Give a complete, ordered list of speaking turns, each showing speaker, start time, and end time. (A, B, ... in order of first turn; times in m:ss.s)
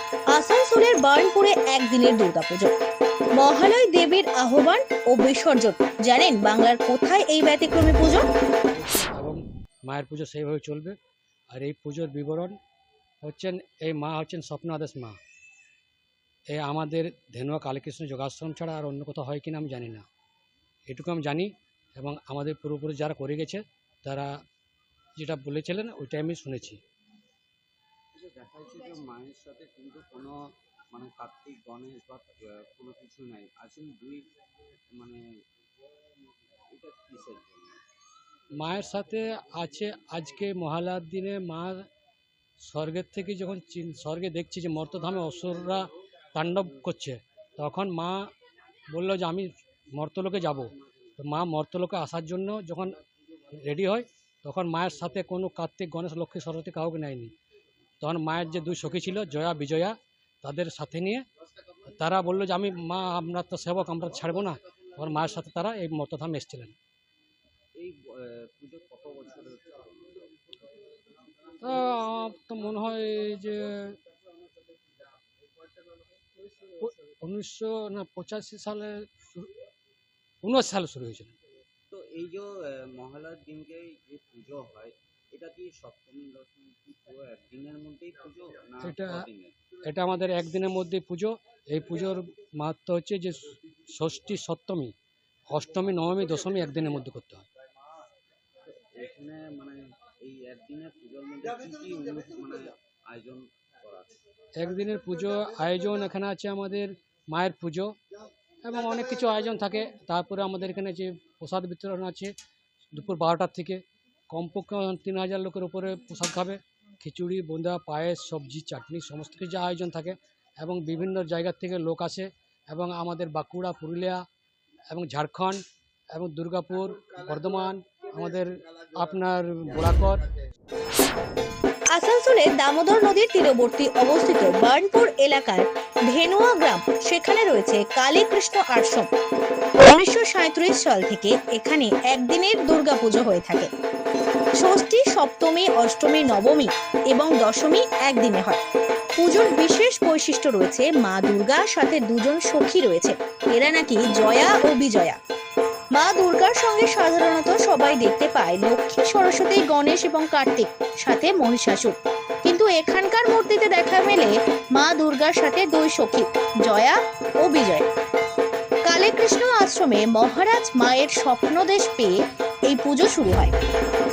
0:00.3-0:02.7 A
0:03.4-0:08.2 A
0:08.7-0:11.0 B
0:11.5-0:12.6 B
0:13.2-0:15.2 B
0:16.5-0:20.0 B
0:20.9-0:24.3 B
0:25.2-0:26.8 B
0:28.1-0:30.4 C
0:30.9-0:34.2 C
0:34.9-0:35.2 C
0:36.7-0:37.8 C
0:38.6-0:41.8 B
0:42.6-0:48.3 B
0:48.9-0:57.3 B
0:58.0-1:01.2 B
1:01.9-1:06.8 B
1:07.8-1:10.4 C
1:11.6-1:14.0 B
1:16.8-1:19.5 B
1:20.4-1:21.3 B
1:21.9-1:29.6 C
1:28.8-1:29.2 B
1:29.9-1:34.9 B
1:35.5-1:37.5 B
1:38.6-1:44.2 C
1:44.6-1:48.0 B
1:48.6-1:52.3 B
1:52.9-2:04.2 B
2:04.9-2:05.6 B
2:06.1-2:10.2 B
2:11.9-2:19.1 A
2:19.8-2:23.7 A
2:24.6-2:28.6 A
2:29.2-2:35.2 A
2:35.9-2:47.9 A
2:48.8-2:52.1 A
2:52.7-2:53.5 A